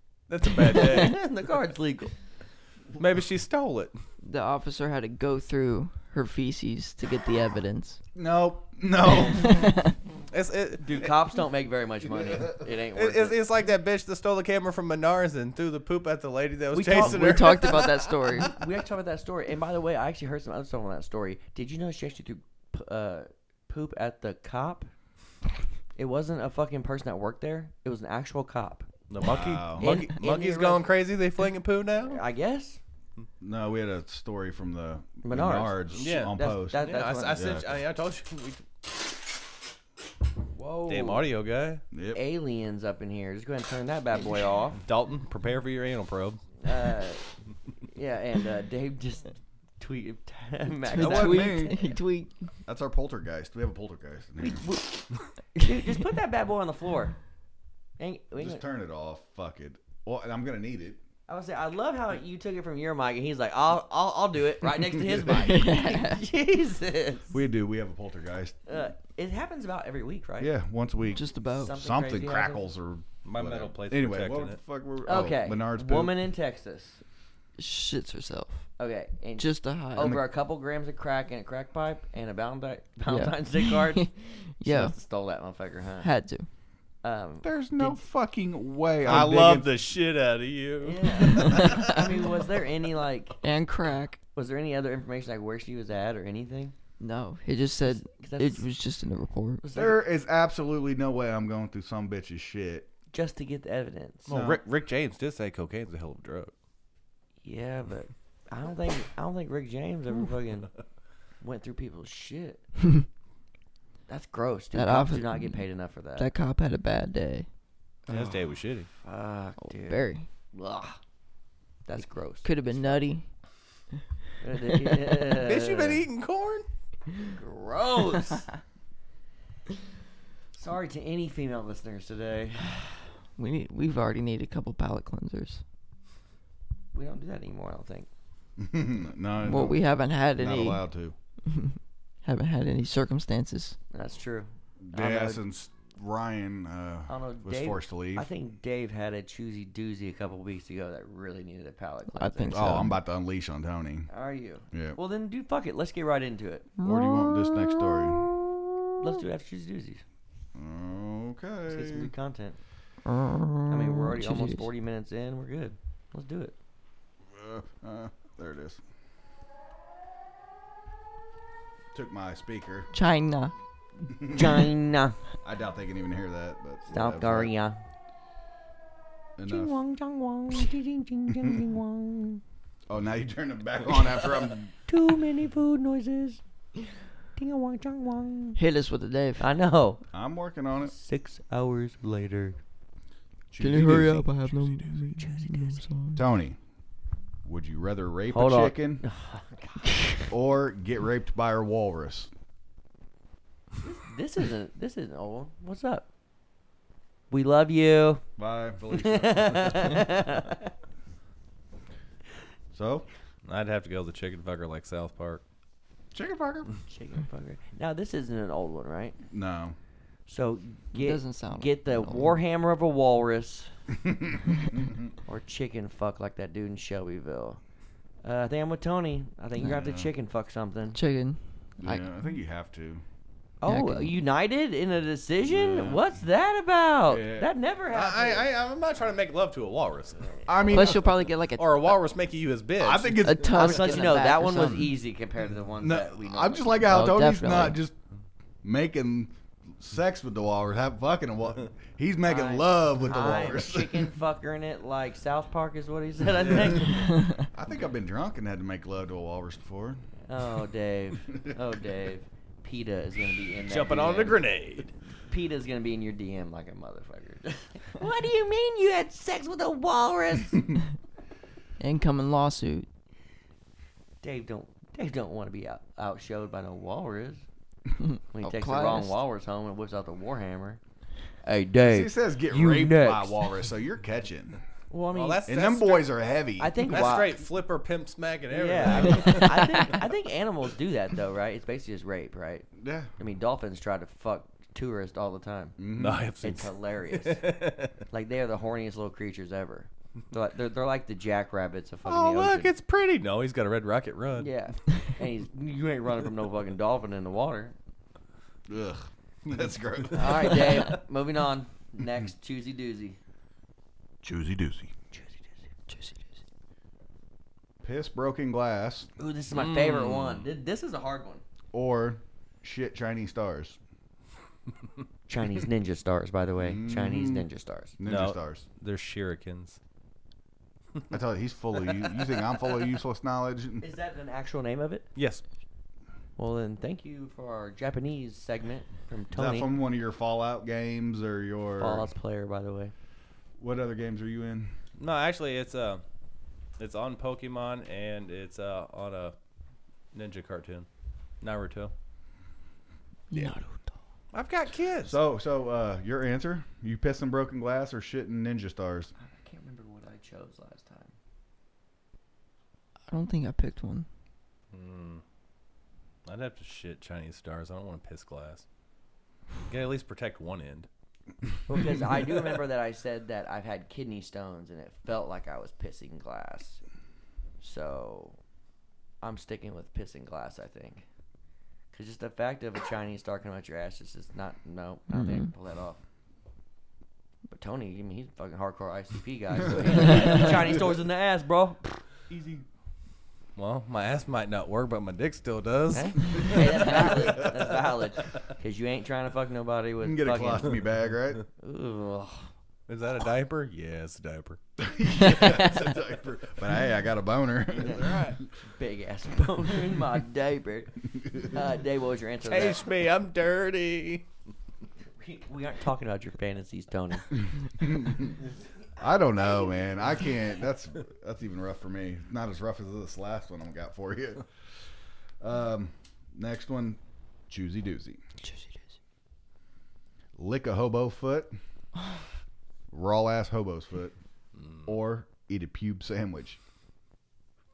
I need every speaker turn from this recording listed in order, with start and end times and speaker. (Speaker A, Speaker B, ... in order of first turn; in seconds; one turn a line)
Speaker A: 0.3-1.2
Speaker B: 0.7-2.1
Speaker A: 3.0-4.0
Speaker C: 4.2-8.0
Speaker D: 8.2-9.9
Speaker C: 9.1-9.9
Speaker A: 10.3-11.1
Speaker B: 10.8-13.4
Speaker A: 12.9-18.4
Speaker B: 16.7-17.8
Speaker C: 17.0-18.6
Speaker B: 18.4-24.9
Speaker B: 26.0-28.9
Speaker A: 29.1-32.2
Speaker D: 29.2-29.9
Speaker B: 29.8-30.9
Speaker B: 32.0-32.8
Speaker D: 33.4-37.8
Speaker B: 35.2-37.5
Speaker A: 35.9-38.6
Speaker B: 40.5-41.2
Speaker A: 40.9-41.8
Speaker D: 41.9-42.2
Speaker B: 42.1-44.8
Speaker A: 44.9-46.4
Speaker B: 46.6-47.3
Speaker B: 47.9-51.8
Speaker C: 50.9-52.4
Speaker D: 50.9-52.0
Speaker D: 52.7-54.7
Speaker B: 54.5-55.0
Speaker B: 55.6-57.2
Speaker B: 58.0-58.6
Speaker D: 58.4-61.0
Speaker B: 61.3-67.4
Speaker D: 65.0-65.4
Speaker C: 65.3-66.2
Speaker D: 67.3-68.6
Speaker B: 68.7-70.5
Speaker D: 70.4-76.1
Speaker C: 71.1-71.8
Speaker B: 71.5-72.7
Speaker A: 73.2-74.6
Speaker B: 75.0-77.0
Speaker C: 77.6-78.7
Speaker B: 78.8-84.1
Speaker C: 79.4-80.2
Speaker D: 80.0-80.2
Speaker C: 83.1-85.0
Speaker B: 84.6-86.1
Speaker C: 86.0-86.5
Speaker B: 87.0-87.5
Speaker D: 87.4-89.7
Speaker A: 89.0-92.0
Speaker B: 90.8-93.4
Speaker C: 91.2-92.0
Speaker C: 93.4-94.2
Speaker B: 94.3-96.8
Speaker C: 97.0-99.6
Speaker B: 97.9-98.7
Speaker B: 99.6-100.0
Speaker D: 99.8-102.9
Speaker B: 103.1-104.3
Speaker A: 104.3-106.5
Speaker D: 104.3-104.6
Speaker B: 107.4-110.7
Speaker B: 111.4-112.6
Speaker B: 114.1-116.3
Speaker C: 114.7-117.5
Speaker A: 118.1-118.9
Speaker D: 118.1-118.4
Speaker B: 119.0-121.0
Speaker C: 119.7-120.3
Speaker B: 121.9-123.0
Speaker C: 122.4-123.3
Speaker B: 124.4-126.0
Speaker C: 124.7-125.2
Speaker A: 125.4-126.7
Speaker B: 127.2-128.5
Speaker B: 130.5-133.1
Speaker C: 133.4-135.6
Speaker B: 136.9-138.1
Speaker D: 138.6-139.8
Speaker C: 139.4-140.8
Speaker D: 140.4-141.2
Speaker C: 141.5-143.8
Speaker B: 143.9-145.4
Speaker D: 144.8-148.3
Speaker B: 147.1-152.9
Speaker C: 152.1-153.0
Speaker D: 152.5-154.1
Speaker B: 154.1-156.7
Speaker D: 154.7-155.0
Speaker C: 156.8-158.1
Speaker D: 156.8-158.4
Speaker B: 159.0-160.0
Speaker D: 160.6-162.1
Speaker B: 161.7-162.6
Speaker C: 163.1-164.7
Speaker B: 163.7-166.6
Speaker D: 167.3-168.8
Speaker D: 171.9-172.9
Speaker C: 172.9-173.5
Speaker D: 174.2-174.7
Speaker B: 174.2-175.2
Speaker D: 175.4-177.5
Speaker B: 176.9-177.8
Speaker D: 179.4-179.7
Speaker B: 179.5-182.4
Speaker D: 182.9-184.7
Speaker B: 184.9-186.4
Speaker B: 187.4-188.6
Speaker C: 188.6-189.5
Speaker B: 189.4-190.0
Speaker D: 190.1-190.9
Speaker B: 190.8-192.6
Speaker D: 193.5-194.4
Speaker C: 193.6-196.3
Speaker B: 195.1-195.8
Speaker D: 196.2-196.6
Speaker D: 197.4-199.0
Speaker B: 198.3-200.2
Speaker D: 200.3-202.3
Speaker B: 203.8-206.1
Speaker B: 207.3-208.2
Speaker D: 208.4-210.1
Speaker B: 208.9-210.7
Speaker D: 212.7-213.1
Speaker A: 213.4-215.4
Speaker D: 216.1-216.7
Speaker B: 216.9-219.2
Speaker D: 219.3-219.8
Speaker B: 220.3-223.7
Speaker C: 220.9-222.3
Speaker D: 224.0-225.1
Speaker B: 225.3-227.6
Speaker B: 228.2-231.0
Speaker D: 229.6-230.1
Speaker C: 230.9-232.1
Speaker D: 231.8-233.0
Speaker B: 233.6-238.5
Speaker C: 233.7-234.2
Speaker D: 235.5-236.0
Speaker D: 237.1-237.5
Speaker A: 237.9-240.4
Speaker D: 240.5-241.1
Speaker C: 240.7-241.8
Speaker A: 241.6-243.3
Speaker D: 242.8-244.1
Speaker C: 243.2-244.9
Speaker B: 243.6-246.8
Speaker D: 245.8-248.0
Speaker C: 246.9-247.8
Speaker D: 248.6-254.2
Speaker B: 252.3-257.4
Speaker A: 256.4-256.8
Speaker C: 257.1-257.4
Speaker D: 257.5-260.0
Speaker B: 260.3-264.4
Speaker A: 263.7-264.9
Speaker B: 265.3-270.7
Speaker C: 271.8-272.9
Speaker B: 274.2-277.4
Speaker C: 278.0-279.2
Speaker B: 278.3-280.8
Speaker B: 281.4-283.5
Speaker D: 281.8-284.6
Speaker B: 284.9-285.5
Speaker A: 285.1-286.1
Speaker D: 285.5-286.9
Speaker B: 286.6-287.4
Speaker A: 286.8-290.0
Speaker B: 288.5-295.8
Speaker C: 289.2-289.9
Speaker D: 292.8-293.1
Speaker D: 295.8-296.3
Speaker A: 296.0-298.0
Speaker B: 296.4-297.6
Speaker B: 298.1-302.7
Speaker A: 302.1-304.5
Speaker B: 304.4-307.8
Speaker D: 308.7-310.8
Speaker B: 310.1-313.2
Speaker D: 314.2-314.9
Speaker B: 315.1-315.6
Speaker C: 315.9-316.2
Speaker D: 317.8-319.1
Speaker B: 319.2-321.4
Speaker A: 319.5-320.5
Speaker D: 321.7-323.8
Speaker B: 325.3-327.9
Speaker D: 326.6-327.5
Speaker D: 328.0-328.6
Speaker A: 328.1-329.8
Speaker D: 331.1-333.9
Speaker B: 333.8-335.1
Speaker A: 335.2-335.4
Speaker B: 336.4-339.7
Speaker D: 339.3-342.1
Speaker B: 341.8-342.9
Speaker D: 343.6-344.7
Speaker A: 345.0-346.0
Speaker A: 346.8-349.4
Speaker A: 350.1-350.9
Speaker A: 351.4-351.9
Speaker C: 353.3-353.9
Speaker A: 354.3-355.2
Speaker D: 355.0-359.1
Speaker B: 359.2-361.1
Speaker C: 363.1-364.1
Speaker A: 364.7-365.2
Speaker A: 366.3-368.6
Speaker A: 369.7-370.9
Speaker B: 371.7-376.8
Speaker B: 377.6-378.4
Speaker B: 379.2-381.0
Speaker B: 381.9-386.0
Speaker C: 385.1-385.5
Speaker B: 387.5-392.6
Speaker D: 389.8-390.6
Speaker A: 390.3-390.5
Speaker A: 393.6-397.8
Speaker B: 395.9-400.8
Speaker D: 396.5-397.6
Speaker D: 400.0-401.4
Speaker B: 401.6-402.5
Speaker A: 402.9-404.6
Speaker D: 404.8-408.4
Speaker B: 407.8-412.8
Speaker A: 407.8-408.4
Speaker A: 412.4-414.3
Speaker B: 415.2-417.4
Speaker D: 417.7-418.4
Speaker D: 419.0-424.5
Speaker D: 425.4-428.2
Speaker C: 428.4-428.7
Speaker D: 430.4-431.6
Speaker D: 432.9-434.1
Speaker D: 434.9-436.6